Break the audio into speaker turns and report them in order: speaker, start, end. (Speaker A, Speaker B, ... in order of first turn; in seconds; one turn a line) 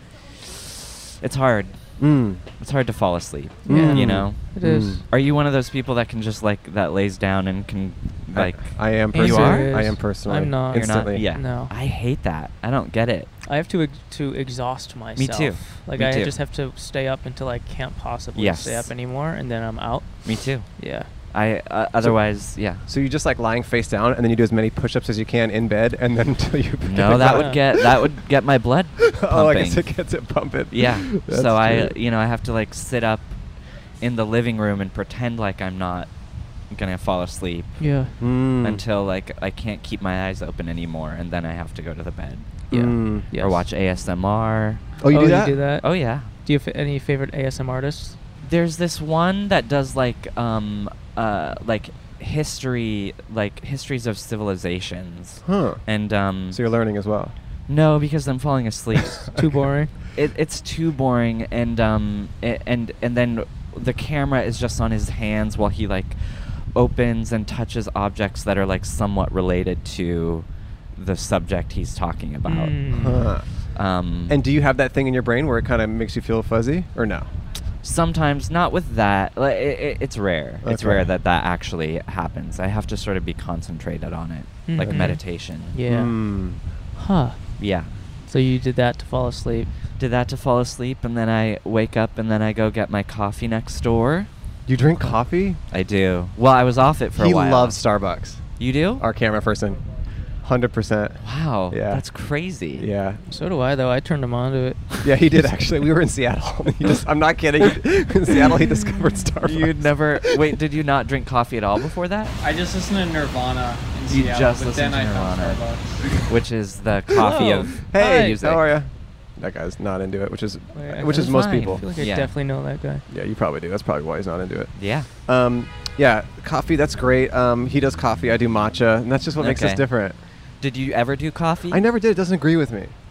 Speaker A: 0.4-1.9
Speaker B: 2.0-2.4
Speaker A: 2.4-4.6
Speaker C: 3.6-5.0
Speaker B: 3.7-5.0
Speaker A: 5.1-9.9
Speaker B: 8.3-11.3
Speaker C: 9.1-11.7
Speaker A: 10.7-13.3
Speaker C: 13.5-21.1
Speaker A: 15.2-16.3
Speaker A: 18.4-18.9
Speaker A: 20.2-20.7
Speaker A: 21.3-22.8
Speaker B: 22.0-28.2
Speaker A: 26.8-29.9
Speaker C: 27.2-27.6
Speaker B: 29.0-31.9
Speaker A: 30.7-33.4
Speaker A: 34.0-36.1
Speaker A: 36.7-37.9
Speaker C: 37.8-38.1
Speaker B: 38.2-38.8
Speaker A: 38.6-42.6
Speaker C: 42.7-43.6
Speaker B: 42.7-43.3
Speaker A: 43.3-44.9
Speaker B: 45.0-45.8
Speaker C: 45.1-48.2
Speaker A: 45.8-46.3
Speaker A: 48.4-56.6
Speaker B: 55.5-55.9
Speaker B: 56.5-57.3
Speaker A: 57.7-59.4
Speaker C: 59.3-59.9
Speaker A: 60.1-72.9
Speaker C: 72.5-73.3
Speaker B: 72.9-73.6
Speaker A: 73.8-74.4
Speaker B: 74.3-77.3
Speaker A: 77.8-85.8
Speaker B: 80.6-81.1
Speaker C: 84.7-86.2
Speaker B: 84.8-85.1
Speaker B: 85.8-86.6
Speaker C: 87.0-87.5
Speaker A: 87.6-87.9
Speaker C: 88.3-89.7
Speaker A: 90.0-94.3
Speaker B: 94.7-95.6
Speaker A: 95.7-97.8
Speaker B: 97.2-99.8
Speaker A: 98.6-99.0
Speaker B: 100.4-102.0
Speaker A: 101.2-102.9
Speaker B: 102.8-103.2
Speaker C: 103.3-104.8
Speaker B: 105.0-110.6
Speaker A: 109.4-112.3
Speaker D: 112.4-116.2
Speaker A: 114.1-115.6
Speaker A: 116.2-118.7
Speaker C: 117.2-118.4
Speaker B: 117.8-121.8
Speaker C: 120.8-123.0
Speaker A: 121.1-122.3
Speaker B: 123.1-130.2
Speaker A: 124.8-125.1
Speaker A: 129.4-129.9
Speaker A: 130.6-131.8
Speaker B: 131.7-132.9